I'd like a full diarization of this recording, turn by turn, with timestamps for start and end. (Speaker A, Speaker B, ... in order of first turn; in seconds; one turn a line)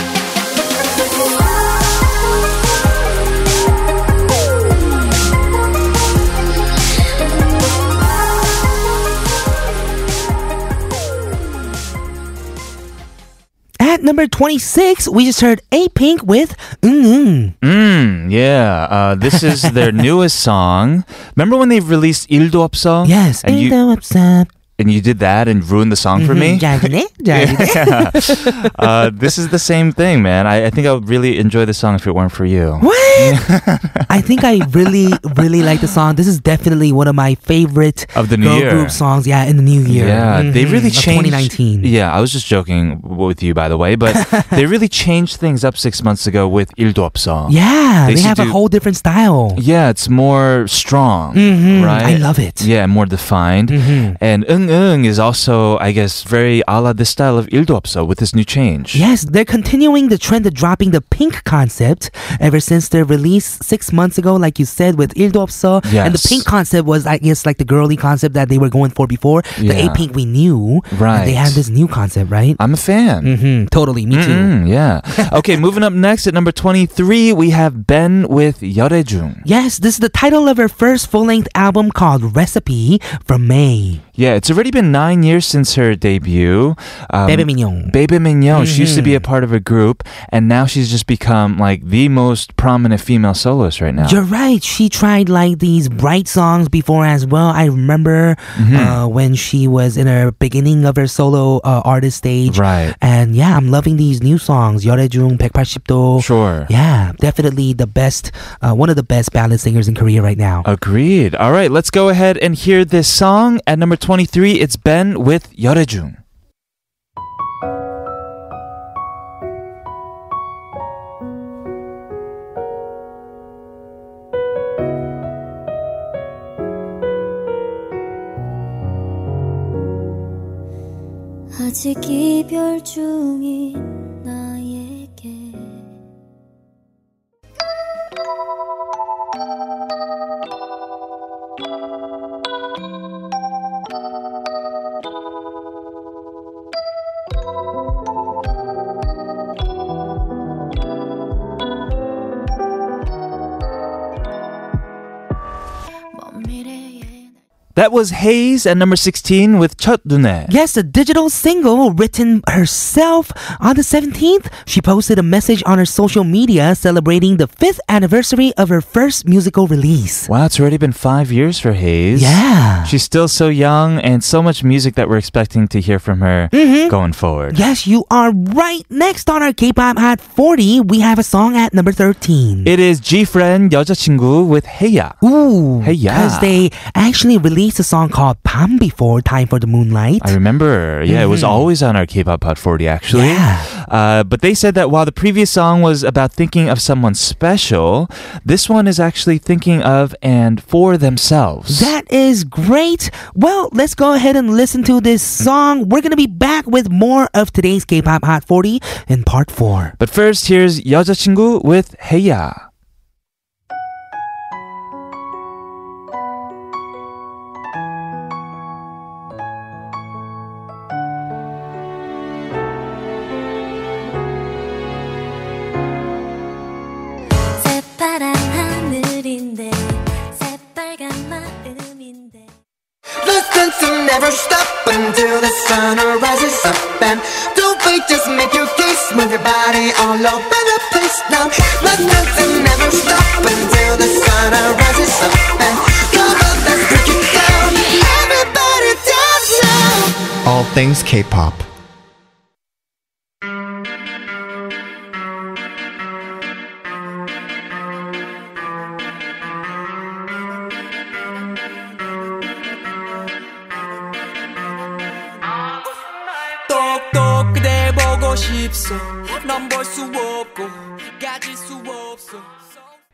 Speaker A: 13.8-17.6
Speaker B: 17.6-23.8
Speaker A: 19.3-19.7
Speaker A: 23.1-24.5
Speaker B: 24.8-35.2
Speaker A: 26.2-28.7
Speaker A: 32.8-33.4
Speaker A: 34.1-41.9
Speaker B: 38.1-39.0
Speaker B: 39.9-48.6
Speaker A: 44.1-44.6
Speaker A: 47.5-49.6
Speaker B: 49.5-59.0
Speaker A: 51.3-52.7
Speaker A: 53.7-54.2
Speaker A: 58.9-72.6
Speaker B: 65.8-66.5
Speaker B: 69.6-70.1
Speaker B: 70.9-71.6
Speaker B: 72.6-73.3
Speaker A: 73.2-74.5
Speaker B: 74.1-79.4
Speaker A: 79.5-84.0
Speaker B: 84.2-94.2
Speaker A: 87.3-87.9
Speaker A: 88.5-89.2
Speaker A: 94.0-110.7
Speaker B: 98.6-99.0
Speaker B: 102.5-103.0
Speaker B: 106.2-106.7
Speaker B: 110.7-116.2
Speaker C: 131.5-135.9
Speaker B: 157.8-160.5
Speaker A: 160.5-170.3
Speaker B: 170.3-177.6
Speaker A: 172.2-172.9
Speaker A: 176.5-176.9
Speaker A: 177.5-182.7
Speaker B: 182.6-185.2
Speaker A: 185.2-190.4
Speaker B: 185.8-186.6
Speaker B: 190.2-201.9
Speaker A: 191.1-191.7
Speaker A: 193.1-193.7
Speaker A: 201.7-209.9
Speaker B: 210.0-212.6
Speaker C: 227.6-232.5
Speaker D: 233.2-251.2
Speaker E: 266.7-272.8